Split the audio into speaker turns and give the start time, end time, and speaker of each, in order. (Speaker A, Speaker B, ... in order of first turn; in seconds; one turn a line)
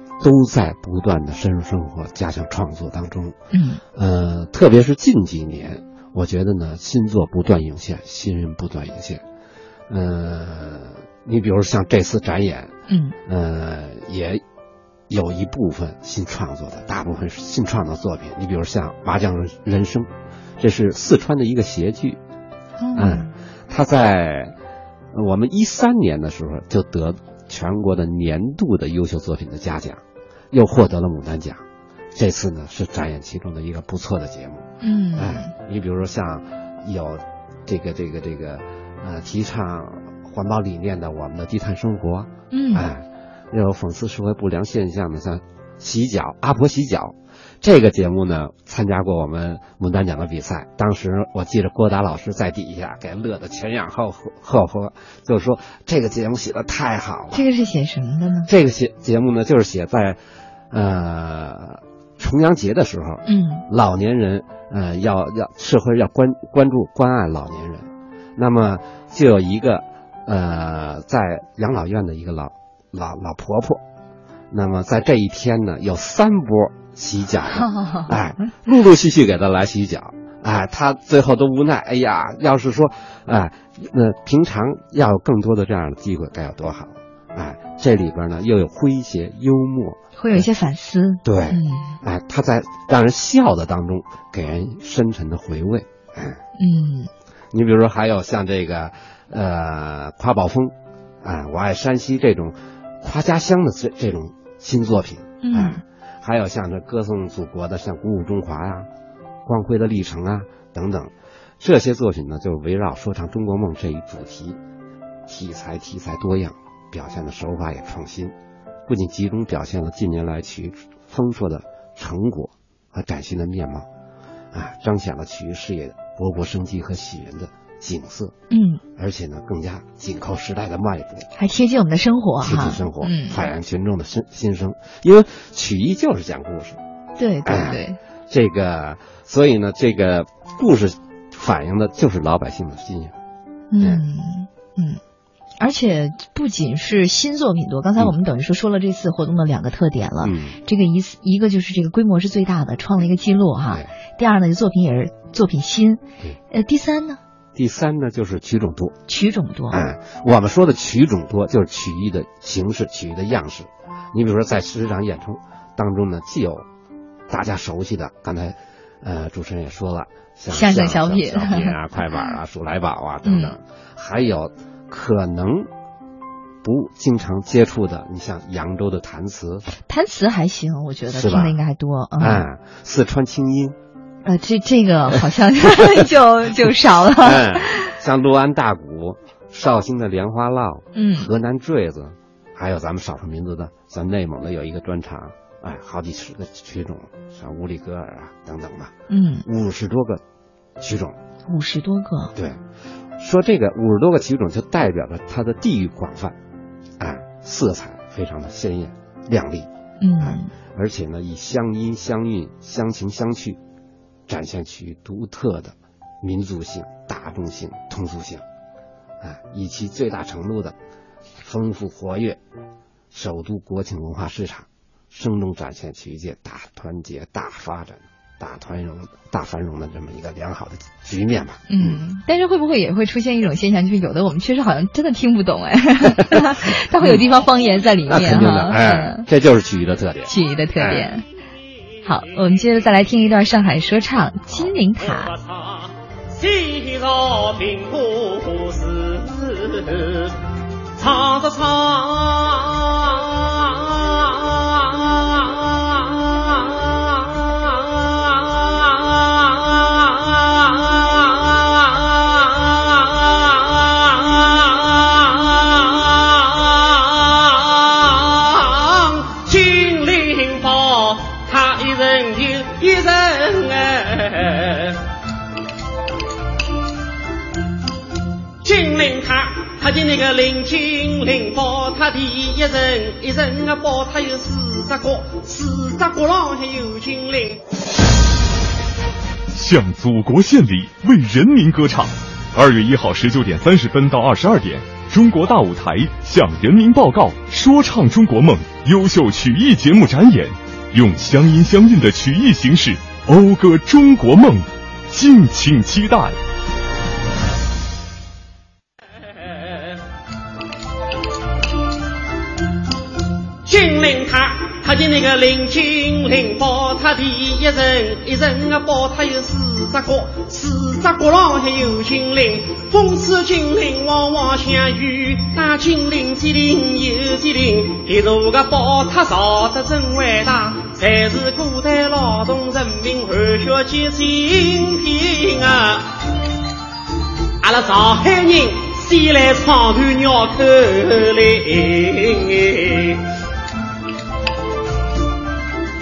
Speaker A: 0.2-3.4
Speaker B: 3.5-3.8
Speaker A: 3.9-9.2
Speaker A: 9.9-12.7
Speaker B: 12.9-13.2
Speaker A: 13.3-14.4
Speaker A: 15.1-22.2
Speaker B: 22.8-23.3
Speaker A: 22.9-24.5
Speaker A: 25.1-31.6
Speaker A: 32.1-57.4
Speaker B: 34.8-35.5
Speaker B: 42.5-42.9
Speaker B: 57.3-58.5
Speaker A: 58.5-60.2
Speaker A: 60.7-73.8
Speaker B: 63.3-63.6
Speaker A: 74.5-90.4
Speaker B: 77.6-78.1
Speaker B: 90.2-92.0
Speaker A: 91.2-96.4
Speaker B: 96.6-97.1
Speaker A: 97.5-108.9
Speaker B: 105.4-105.8
Speaker A: 109.4-114.6
Speaker A: 115.3-118.3
Speaker A: 118.9-123.9
Speaker A: 124.5-128.3
Speaker B: 128.5-128.8
Speaker A: 128.9-131.3
Speaker B: 131.4-133.5
Speaker A: 132.4-136.8
Speaker B: 137.2-138.0
Speaker A: 137.4-143.1
Speaker B: 143.7-145.0
Speaker B: 145.6-157.2
Speaker A: 150.2-150.6
Speaker A: 157.6-159.0
Speaker B: 159.1-159.8
Speaker A: 159.7-166.7
Speaker A: 167.3-175.7
Speaker B: 170.5-172.3
Speaker B: 173.2-173.6
Speaker A: 176.6-179.7
Speaker B: 179.9-182.5
Speaker A: 181.1-181.6
Speaker A: 182.2-183.8
Speaker B: 184.2-187.9
Speaker A: 187.2-198.9
Speaker B: 190.9-191.3
Speaker B: 199.1-199.4
Speaker A: 199.4-200.2
Speaker A: 200.8-201.2
Speaker B: 201.5-202.3
Speaker A: 203.2-206.4
Speaker A: 207.0-209.7
Speaker B: 210.0-210.5
Speaker A: 210.2-213.6
Speaker A: 214.3-218.4
Speaker A: 219.2-220.8
Speaker A: 221.4-222.4
Speaker A: 223.1-232.0
Speaker B: 231.7-239.2
Speaker A: 237.0-237.2
Speaker A: 238.1-241.1
Speaker B: 240.3-241.2
Speaker B: 242.1-245.3
Speaker C: 245.3-250.3
Speaker C: 250.9-275.0
Speaker C: 278.6-287.6
Speaker D: 289.5-306.4
Speaker C: 313.6-336.1
Speaker C: 337.6-343.2